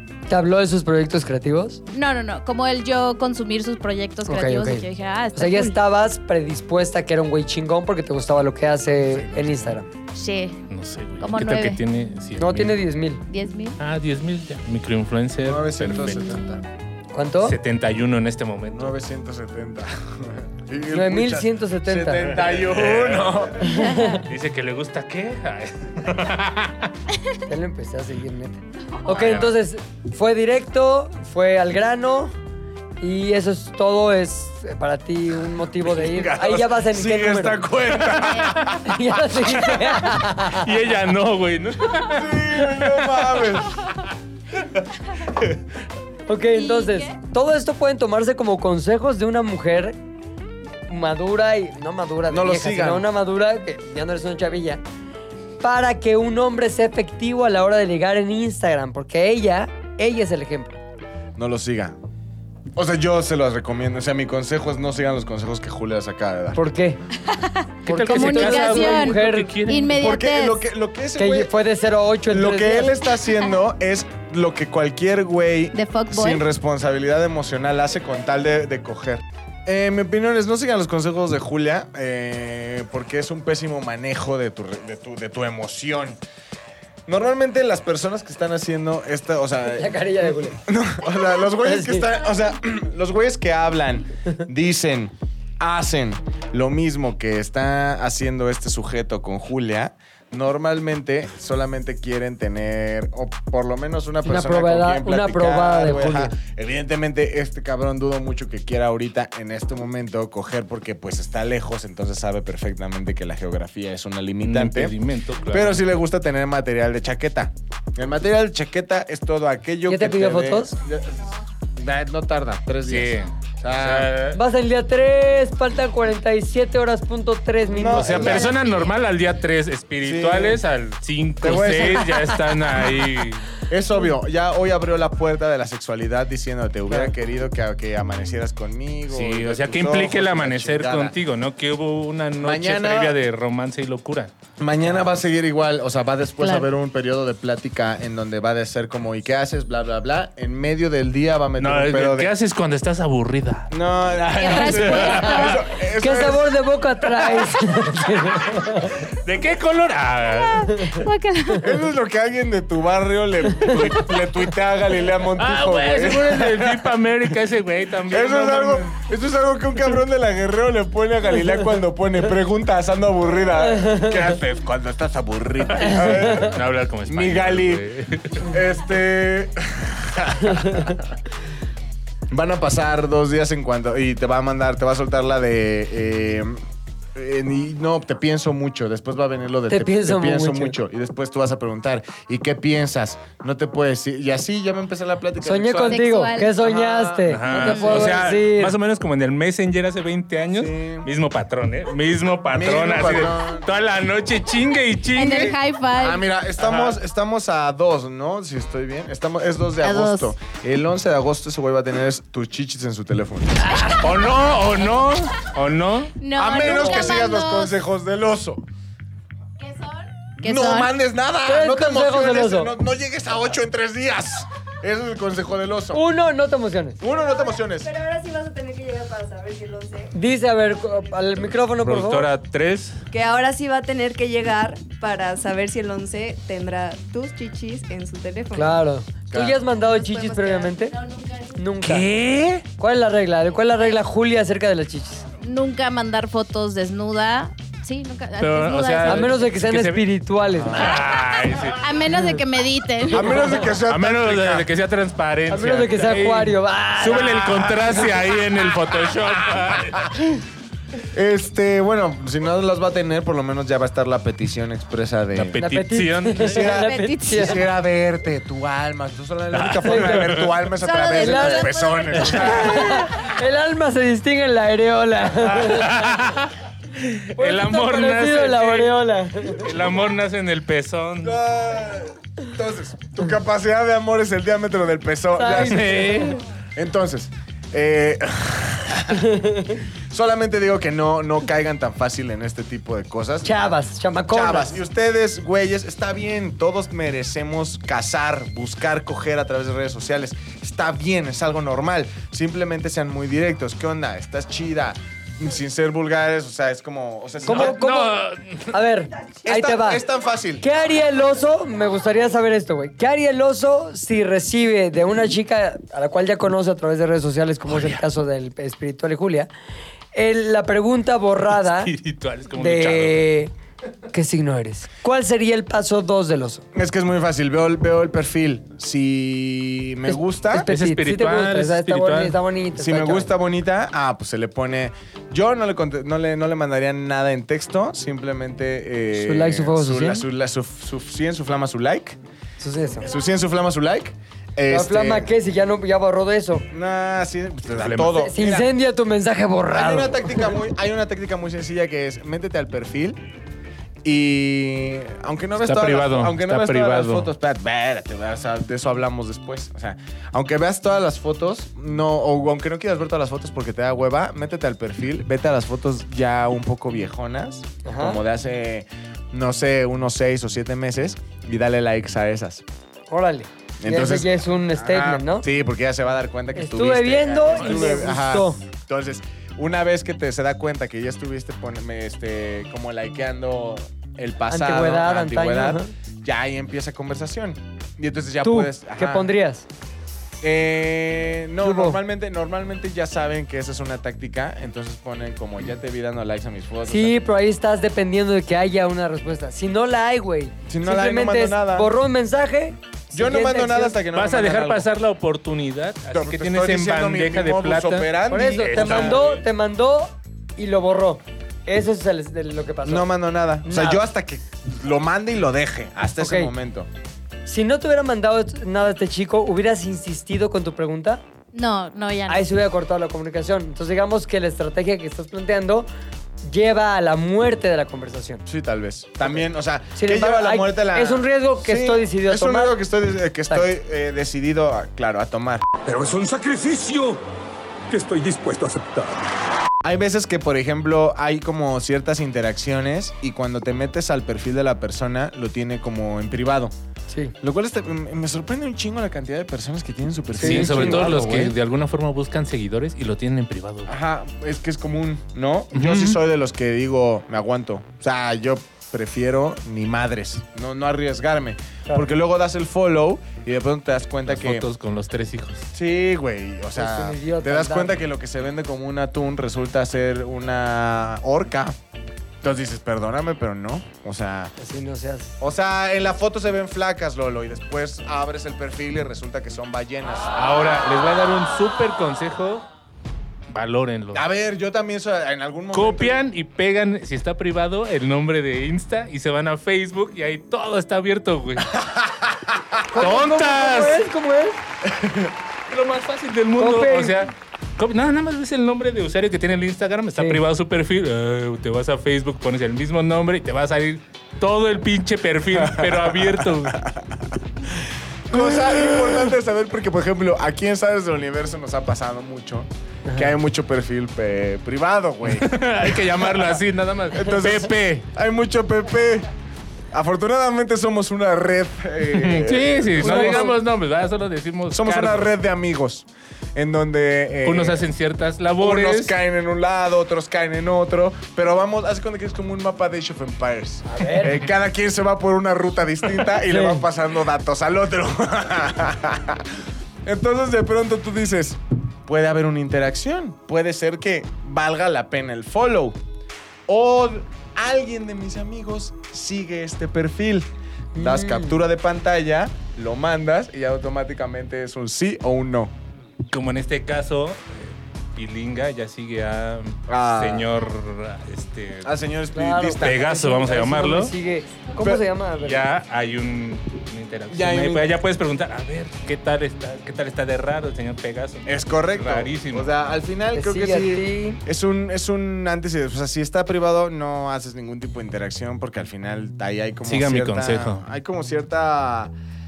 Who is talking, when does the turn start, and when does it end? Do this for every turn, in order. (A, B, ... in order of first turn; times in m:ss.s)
0:00.3-0:01.8 A
0:01.9-0:05.8 B
0:04.3-0:09.9 A
0:09.0-0:09.8 C
0:10.1-0:10.6 B
0:10.7-0:12.8 D
0:11.2-0:11.8 B
0:12.4-0:13.2 A
0:13.3-0:13.8 B
0:13.8-0:16.6 D
0:15.4-0:16.6 C
0:17.1-0:17.6 A
0:17.4-0:18.9 D
0:18.7-0:23.8 C
0:20.9-0:22.4 A
0:22.6-0:23.7 D
0:23.6-0:24.3 A
0:23.8-0:24.2 B
0:24.2-0:26.9 D
0:27.5-0:32.3 A
0:29.1-0:29.5 D
0:33.0-0:37.7 A
0:35.8-0:39.0 C
0:38.1-0:38.7 B
0:38.7-0:40.8 A
0:39.6-0:43.6 D
0:42.0-0:43.8 C
0:46.3-0:50.0 A
0:46.6-0:47.2 B
0:50.9-0:54.8 A
0:52.3-0:53.1 C
0:55.6-1:00.8 A
1:01.4-1:02.0 C
1:02.8-1:06.6 C
1:06.6-1:07.0 A
1:07.3-1:10.6 B
1:07.9-1:09.5 A
1:07.9-1:10.0 D
1:10.0-1:11.5 C
1:11.2-1:13.0 A
1:12.3-1:26.2 C
1:15.7-1:16.4 B
1:27.1-1:55.0 C
1:29.7-1:30.6 A
1:31.6-1:32.2 A
1:44.2-1:46.4 A
1:54.4-1:55.8 D
1:55.5-2:04.2 C
1:59.9-2:00.7 A
2:02.9-2:04.4 D
2:04.3-2:08.5 A
2:07.7-2:08.6 C
2:07.9-2:13.5 D
2:10.0-2:10.6 C
2:11.4-2:12.4 C
2:13.7-2:21.2 C
2:19.1-2:24.3 D
2:22.4-2:23.2 C
2:24.6-2:32.3 C
2:26.4-2:26.7 B
2:31.6-2:33.7 D
2:33.7-2:36.5 C
2:34.4-2:35.6 B
2:34.6-2:35.6 D
2:36.0-2:39.1 A
2:39.1-2:41.0 D
2:40.6-2:41.8 B
2:41.6-2:47.3 C
2:45.4-2:49.0 D
2:48.1-2:57.8 C
2:53.7-2:54.2 A
2:55.7-2:58.5 D
2:58.4-3:01.0 C
3:00.6-3:00.9 A
3:02.3-3:06.6 C
3:07.2-3:18.3 C
3:09.7-3:10.8 A
3:15.4-3:18.8 A
3:15.9-3:16.5 B
3:17.3-3:25.6 D
3:20.5-3:21.1 C
3:22.5-3:23.7 C
3:25.2-3:26.2 B
3:25.9-3:33.9 C
3:26.6-3:27.0 D
3:29.8-3:30.3 B
3:33.6-3:36.2 D
3:36.2-3:37.7 B
3:36.4-3:38.6 C
3:39.6-3:40.9 B
3:40.4-3:46.0 C
3:41.4-3:42.7 A
3:45.9-3:47.0 A
3:47.0-3:47.9 C
3:47.1-3:50.1 E
3:50.1-3:52.3 A
3:51.8-3:53.0 D
3:53.1-3:58.8 E
3:58.5-4:01.0 A
3:59.3-3:59.6 C
3:59.9-4:00.8 E
4:00.9-4:01.6 B
4:01.6-4:02.1 A
4:01.8-4:02.6 D
4:02.8-4:05.2 A
4:05.4-4:09.4 B
4:08.4-4:10.1 D
4:09.1-4:10.9 A
4:10.6-4:11.0 C
4:10.7-4:11.8 D
4:11.8-4:13.6 B
4:13.1-4:14.7 C
4:13.9-4:20.1 D
4:15.5-4:17.7 A
4:17.4-4:18.2 C
4:21.1-4:25.6 C
4:25.3-4:26.6 D
4:25.6-4:27.6 A
4:26.4-4:33.1 C
4:26.6-4:27.6 B
4:29.5-4:30.5 D
4:29.8-4:30.4 A
4:30.8-4:32.6 B
4:31.2-4:31.7 A
4:32.3-4:36.2 A
4:35.4-4:41.4 D
4:37.4-4:39.7 A
4:41.2-4:46.2 C
4:45.4-4:46.4 A
4:45.6-4:46.4 D
4:46.8-4:49.4 C
4:49.1-4:49.8 A
4:50.1-4:53.6 C
4:53.4-4:54.8 A
4:54.3-5:08.0 C
5:07.5-5:08.2 A
5:07.5-5:08.7 D
5:08.7-5:10.0 A
5:09.4-5:10.6 C
5:10.6-5:19.5 A
5:20.1-5:21.9 A
5:21.6-5:23.2 D
5:22.6-5:23.5 A
5:24.1-5:26.7 A
5:26.7-5:30.7 C
5:30.1-5:33.3 A
5:30.6-5:32.4 D
5:32.8-5:42.2 C
5:39.2-5:40.2 A
5:42.6-5:43.1 A
5:43.0-5:45.3 C
5:44.7-5:46.7 A
5:46.7-5:48.7 C
5:47.8-5:48.2 D
5:48.1-5:50.5 A
5:49.7-5:53.2 C
5:54.0-6:12.6 C
5:55.6-5:57.3 D
6:07.8-6:08.2 A
6:13.1-6:15.5 A
6:13.8-6:29.3 C
6:16.6-6:18.6 A
6:17.6-6:17.8 D
6:24.5-6:25.9 A
6:28.4-6:29.7 A
6:30.4-6:37.2 C
6:31.6-6:32.0 A
6:36.9-6:44.0 A
6:40.7-6:41.9 C
6:43.1-6:44.9 C
6:44.1-6:49.4 D
6:46.1-6:49.3 C
6:48.3-6:54.0 A
6:52.8-6:56.9 C
6:56.2-6:56.5 A
6:57.5-7:01.2 A
7:01.5-7:02.5 B
7:02.3-7:05.9 A
7:06.4-7:08.4 A
7:08.5-7:15.7 C
7:10.0-7:12.8 A
7:15.9-7:17.2 F
7:17.9-7:19.3 F
7:19.8-7:26.7 C
7:27.1-7:27.4 A
7:27.4-7:31.6 C
7:30.4-7:31.5 A
7:30.4-7:33.9 D
7:33.9-7:44.7 C
7:35.7-7:36.2 D
7:44.3-7:45.7 D
7:45.7-7:51.8 C
7:46.8-7:48.0 A
7:52.4-7:54.5 C
7:54.6-7:55.4 A
7:55.4-8:00.3 C
8:00.4-8:02.7 D
8:03.5-8:04.2 D
8:04.1-8:06.2 C
8:05.7-8:11.8 D
8:11.8-8:12.6 C
8:12.9-8:14.1 D
8:12.9-8:14.6 A
8:14.9-8:15.3 C
8:15.7-8:26.8 D
8:16.6-8:17.3 A
8:20.2-8:20.4 A
8:25.5-8:36.6 C
8:35.3-8:37.8 D
8:37.1-8:39.3 C
8:39.9-8:43.6 C
8:42.1-8:45.3 D
8:43.0-8:43.5 A
8:44.7-8:47.9 C
8:47.4-8:49.2 D
8:48.6-8:59.5 C
8:53.9-8:54.4 A
8:56.4-8:56.8 A
9:00.0-9:06.0 C
9:06.7-9:15.7 C
9:11.0-9:11.6 A
9:16.3-9:21.9 D
9:19.9-9:20.5 C
9:21.8-9:23.1 C
9:22.3-9:25.7 A
9:22.8-9:24.1 D
9:25.4-9:32.7 D
9:27.3-9:27.9 C
9:31.5-9:42.1 C
9:33.4-9:34.4 A
9:39.9-9:40.8 D